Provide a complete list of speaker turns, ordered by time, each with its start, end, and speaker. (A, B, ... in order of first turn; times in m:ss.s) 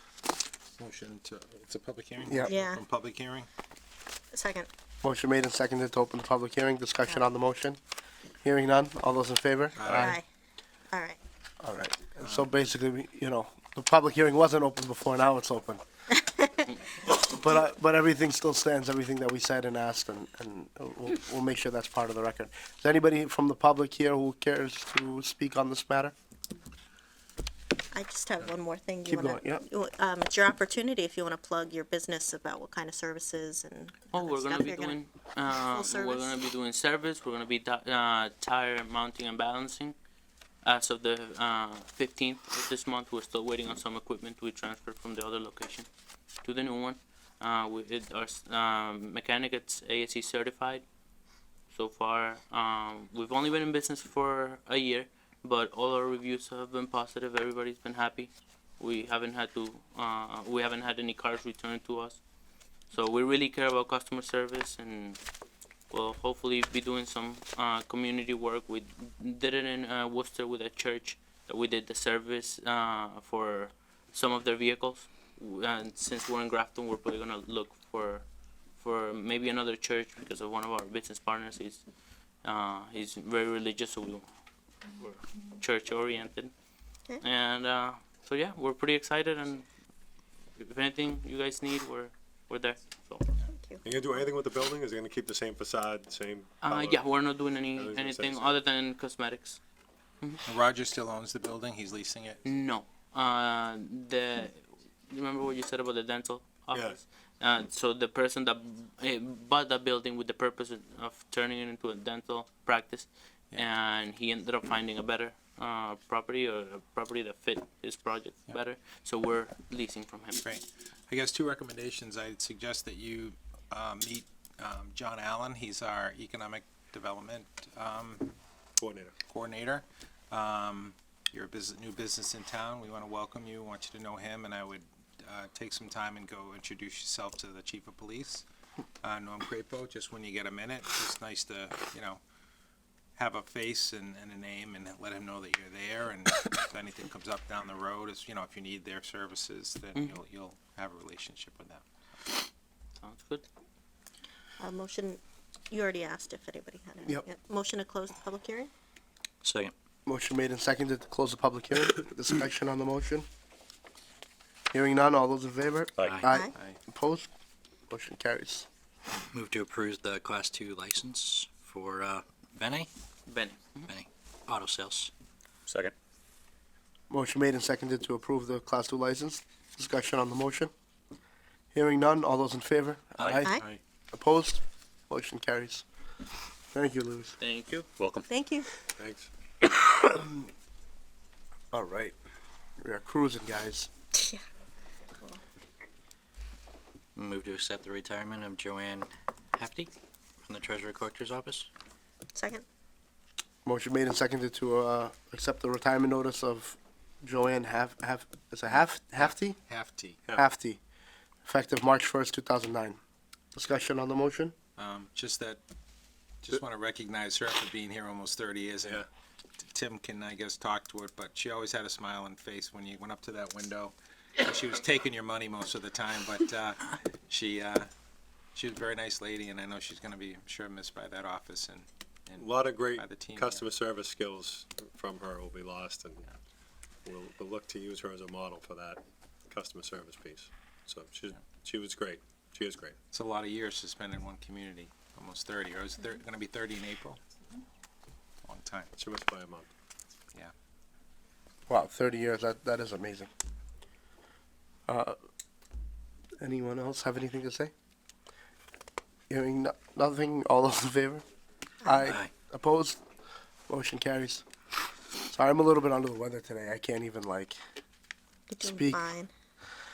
0:00.8-0:03.5 A
0:02.2-0:02.5 B
0:02.4-0:02.8 C
0:04.3-0:04.7 C
0:05.0-0:07.8 B
0:08.4-0:10.2 B
0:09.8-0:10.2 A
0:09.9-0:10.2 C
0:10.9-0:11.2 C
0:11.6-0:15.8 B
0:12.2-0:12.5 A
0:16.2-0:16.6 C
0:17.0-0:26.1 B
0:27.9-0:35.0 C
0:29.1-0:29.6 B
0:34.1-0:40.0 D
0:35.5-0:36.4 C
0:40.6-0:45.9 D
0:46.4-0:50.8 D
0:51.7-1:02.2 D
1:02.9-1:05.2 D
1:05.9-1:18.2 D
1:18.8-1:21.8 D
1:22.4-1:24.2 D
1:25.0-1:26.5 D
1:27.2-1:29.6 D
1:30.6-1:33.3 D
1:33.4-1:33.8 C
1:33.8-1:37.1 E
1:36.6-1:39.6 D
1:37.7-1:38.5 E
1:40.4-1:42.4 A
1:42.4-2:00.4 D
1:46.7-1:47.0 E
2:00.4-2:08.4 A
2:08.8-2:09.1 E
2:09.3-2:18.4 A
2:19.0-2:22.2 A
2:23.2-2:32.4 A
2:33.0-2:33.4 D
2:34.6-2:38.7 C
2:39.4-2:39.7 F
2:40.0-2:43.3 B
2:44.7-2:47.3 B
2:47.9-2:48.7 B
2:49.3-2:52.9 F
2:53.3-2:53.9 D
2:53.9-2:55.1 F
2:57.1-3:00.7 B
3:01.7-3:05.8 B
3:03.2-3:03.5 F
3:06.7-3:07.3 B
3:07.4-3:07.9 D
3:08.3-3:08.7 C
3:09.0-3:09.3 E
3:09.6-3:10.5 B
3:11.7-3:12.1 B
3:12.8-3:13.9 B
3:14.1-3:14.4 C
3:17.2-3:21.7 F
3:22.3-3:22.6 C
3:23.6-3:29.6 B
3:29.2-3:30.2 A
3:30.4-3:30.8 B
3:31.4-3:33.0 B
3:33.5-3:34.5 B
3:34.8-3:35.6 A
3:36.4-3:39.0 A
3:39.6-3:47.9 A
3:48.5-3:53.6 A
3:52.4-3:56.3 E
3:57.0-4:03.0 E
4:03.1-4:07.2 A
4:08.4-4:08.9 A
4:09.0-4:09.7 E
4:11.7-4:13.3 B
4:14.9-4:15.2 B
4:16.4-4:17.7 B
4:19.3-4:21.2 B
4:21.8-4:23.0 B
4:22.0-4:22.3 F
4:23.7-4:24.4 B
4:25.2-4:27.6 B
4:28.5-4:29.3 C
4:28.6-4:29.0 B